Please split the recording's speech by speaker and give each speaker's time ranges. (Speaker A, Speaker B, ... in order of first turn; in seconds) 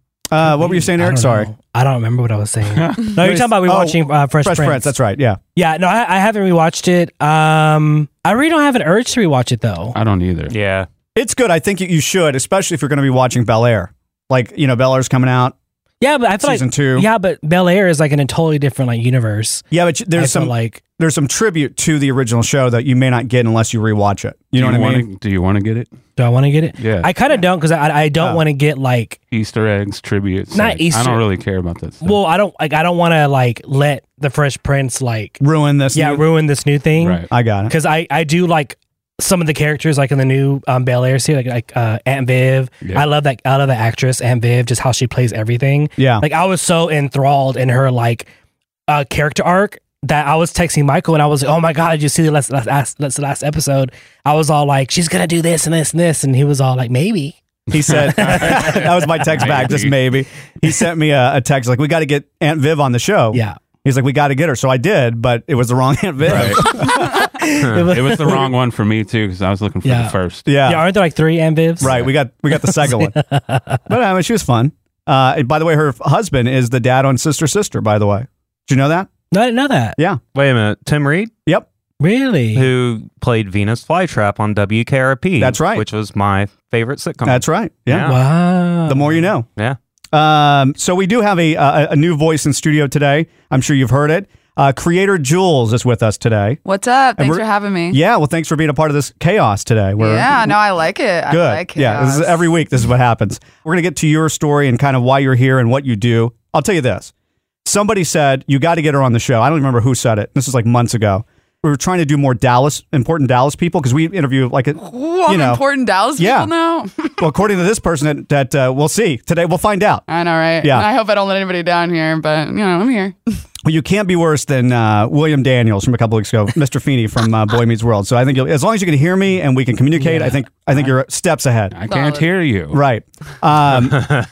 Speaker A: 0.3-1.5, 3.2-5.4, 11.1-15.5, 16.4-17.1, 19.7-25.1, 35.4-36.2, 37.3-37.7, 46.0-46.2, 57.7-67.1, 70.5-70.8, 71.8-73.2, 73.9-79.1, 85.4-85.8, 87.2-88.1, 88.9-89.5, 90.1-96.6, 97.2-100.6, 101.3-107.1, 107.6-115.6, 116.2-116.5, 117.2-120.0, 120.6-120.9, 123.6-131.7, 132.7-134.1
Speaker B: 0.4-4.9, 5.5-9.9, 16.0-20.8, 26.2-29.2, 30.5-31.3, 32.0-35.4, 35.9-48.3, 48.9-57.4, 57.9-58.7, 66.3-68.5, 69.8-71.9, 72.5-73.8, 79.3-80.0, 82.0-82.7, 88.0-89.2, 129.9-130.4
Speaker C: 2.7-3.1, 9.9-10.5, 24.5-25.9, 26.8-27.1, 29.3-32.2, 37.0-37.3, 57.8-60.0, 66.3-66.7, 67.8-70.5, 71.8-72.1, 131.7-132.8
Speaker D: 10.5-10.9, 80.3-81.3, 82.5-88.1
Speaker E: 96.6-98.0, 100.0-102.5, 114.8-117.2, 120.1-123.4, 131.9-132.3